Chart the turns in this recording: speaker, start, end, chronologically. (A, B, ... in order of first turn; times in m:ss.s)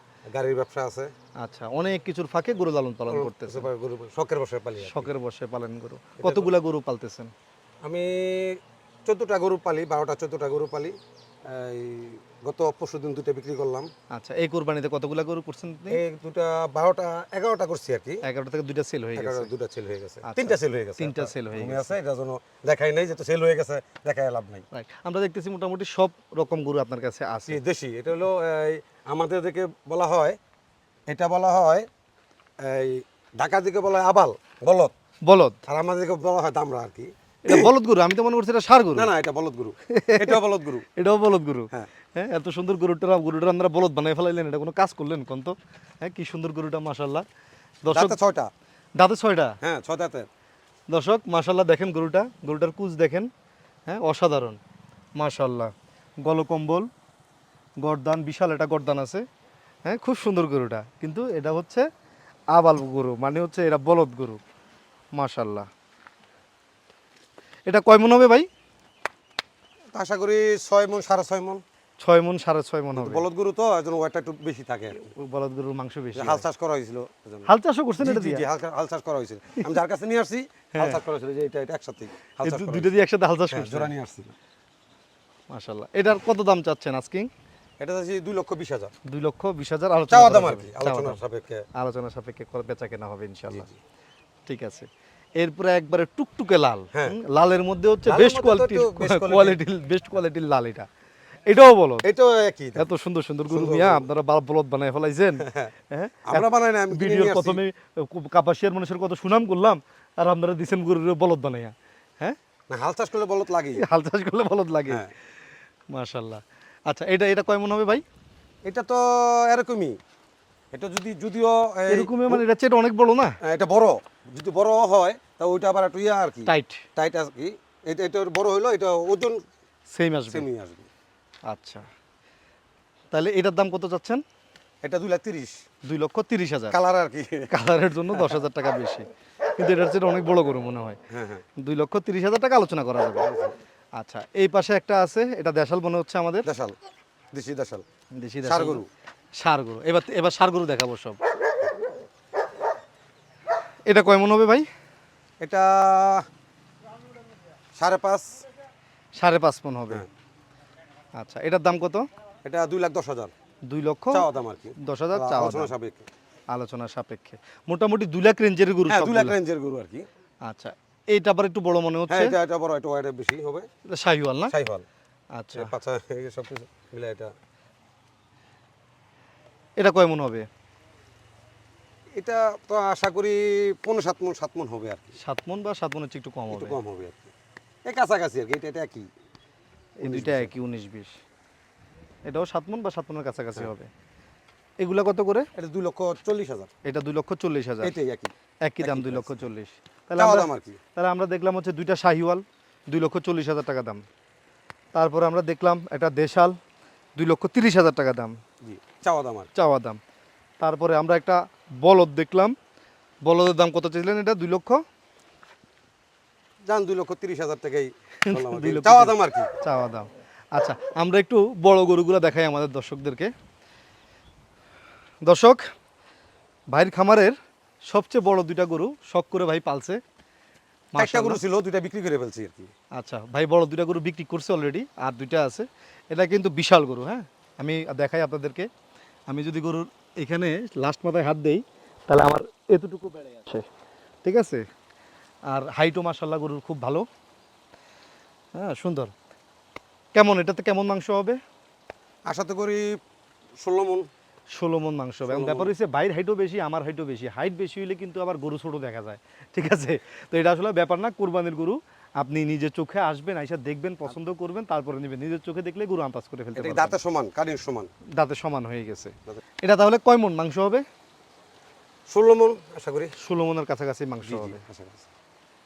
0:00.3-0:01.1 A
0:01.4-0:03.7 B
0:03.1-0:05.1 A
0:04.8-0:07.3 B
0:06.2-0:06.5 A
0:07.8-0:11.0 A
0:11.5-0:13.9 A
0:14.1-0:16.0 B
0:15.9-0:18.2 A
0:18.2-0:19.5 B
0:19.2-0:24.6 A
0:20.2-0:21.9 B
0:24.7-0:27.6 B
0:27.5-0:30.4 A
0:31.1-0:31.9 A
0:32.6-0:34.9 A
0:35.3-0:35.6 B
0:35.7-0:37.7 A
0:37.4-0:39.1 B
0:39.0-0:40.9 A
0:39.9-0:40.4 B
0:41.0-0:47.2 B
0:47.8-0:48.2 B
0:47.9-0:48.5 A
0:49.0-0:49.6 B
0:49.6-0:50.3 A
0:50.9-0:53.3 B
0:53.9-0:54.6 B
0:55.2-0:55.7 B
0:56.2-0:56.9 B
0:57.8-0:59.2 B
0:59.9-1:01.9 B
1:02.5-1:04.4 B
1:05.2-1:05.7 B
1:07.7-1:08.5 B
1:09.9-1:11.6 A
1:12.0-1:13.2 B
1:13.0-1:15.0 A
1:15.0-1:16.4 B
1:16.2-1:17.5 A
1:17.5-1:18.4 B
1:18.0-1:23.0 A
1:20.8-1:21.0 B
1:22.4-1:23.9 B
1:23.5-1:24.4 A
1:25.5-1:27.3 B
1:27.8-1:28.9 A
1:29.1-1:31.2 B
1:30.1-1:31.6 A
1:31.8-1:33.7 B
1:33.5-1:33.8 A
1:34.5-1:40.9 B
1:38.1-1:39.6 A
1:41.5-1:42.1 B
1:42.0-1:42.8 A
1:42.8-1:52.4 B
1:43.5-1:44.1 A
1:45.4-1:45.7 A
1:46.3-1:47.6 A
1:52.7-1:53.8 A
1:53.8-1:55.0 B
1:55.9-1:58.0 B
1:58.6-2:00.0 A
2:00.7-2:02.4 A
2:01.9-2:03.4 B
2:03.4-2:09.4 A
2:06.5-2:06.8 B
2:09.9-2:10.5 B
2:10.3-2:10.9 A
2:11.5-2:11.8 B
2:13.1-2:14.2 B
2:14.8-2:15.6 A
2:15.8-2:16.8 B
2:16.7-2:17.5 A
2:17.5-2:19.1 B
2:19.6-2:21.0 B
2:21.1-2:21.4 A
2:21.6-2:23.3 B
2:23.2-2:23.6 A
2:24.0-2:26.5 B
2:26.4-2:26.8 A
2:27.3-2:27.8 A
2:28.2-2:28.8 B
2:28.4-2:28.9 A
2:29.4-2:31.2 B
2:33.9-2:34.7 B
2:35.4-2:36.3 A
2:37.8-2:38.4 A
2:39.2-2:40.0 B
2:41.2-2:42.1 B
2:42.4-2:43.3 A
2:43.7-2:44.3 B
2:44.1-2:46.1 A
2:44.8-2:45.7 B
2:46.5-2:49.4 B
2:48.9-2:50.1 A
2:50.4-2:52.3 B
2:52.1-2:53.7 A
2:53.9-2:54.5 B
2:54.5-2:54.9 A
2:55.3-2:55.7 B
2:55.5-2:57.3 A
2:59.8-3:00.5 B
3:02.2-3:05.2 A
3:05.2-3:06.8 B
3:06.5-3:07.3 A
3:07.9-3:09.1 A
3:10.0-3:11.1 B
3:10.0-3:10.5 A
3:12.3-3:13.9 B
3:14.8-3:15.5 B
3:15.6-3:16.7 A
3:16.8-3:17.9 B
3:17.8-3:19.4 A
3:18.6-3:24.0 B
3:20.2-3:20.8 A
3:25.0-3:26.6 B
3:27.2-3:28.4 B
3:28.6-3:29.5 A
3:29.6-3:30.0 B
3:30.6-3:32.6 B
3:33.2-3:34.8 B
3:36.7-3:39.5 A
3:38.2-3:43.3 B
3:45.2-3:45.6 B
3:46.7-3:47.4 B
3:47.9-3:50.0 B
3:50.9-3:51.4 B
3:51.0-3:52.7 A
3:53.0-3:58.7 B
3:59.3-4:03.7 B
4:04.2-4:04.6 B
4:05.5-4:07.1 B
4:08.6-4:09.1 B
4:10.1-4:11.4 B
4:12.3-4:13.0 A
4:13.6-4:14.1 A
4:14.6-4:27.0 B
4:15.3-4:15.7 A
4:26.6-4:27.9 A
4:28.2-4:30.8 B
4:32.1-4:33.1 A
4:33.2-4:34.6 B
4:34.2-4:35.1 A